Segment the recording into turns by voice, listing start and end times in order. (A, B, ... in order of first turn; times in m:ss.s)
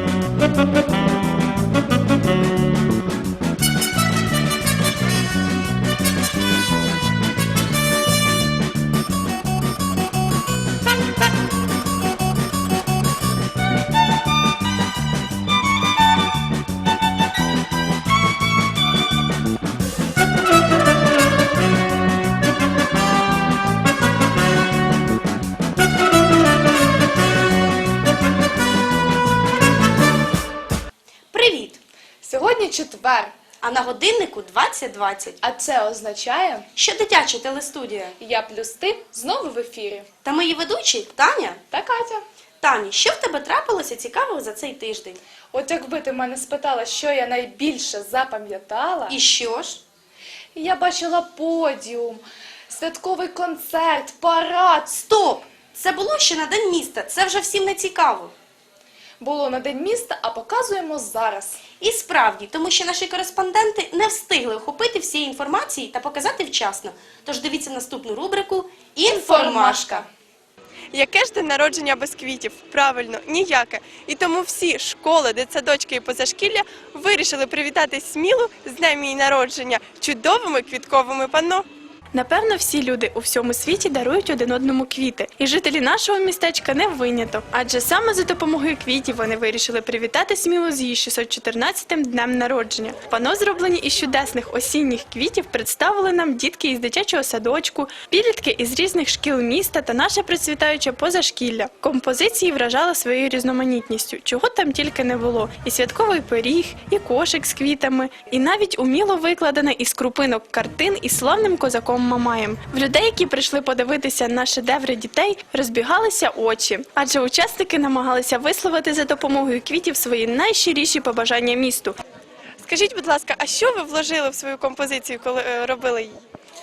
0:31.3-0:31.8 A
0:32.2-0:33.3 B
0:33.6-0:35.4 A
0:35.4-0:36.6 B
0:36.8-0:38.1 A
0:38.2-0:40.0 B
0:40.2-0:41.6 A
0:41.7-0:42.2 B
0:42.6-0:45.2 A
0:45.5-0:49.2 B
0:49.1-0:49.8 A
0:50.6-0:55.0 B
0:55.0-0:58.3 A
0:59.2-1:01.6 B
1:01.8-1:10.0 A
1:09.1-1:09.4 C
1:09.1-1:10.1 B
1:10.9-1:21.6 C
1:22.1-2:02.0 D
2:02.6-2:06.2 C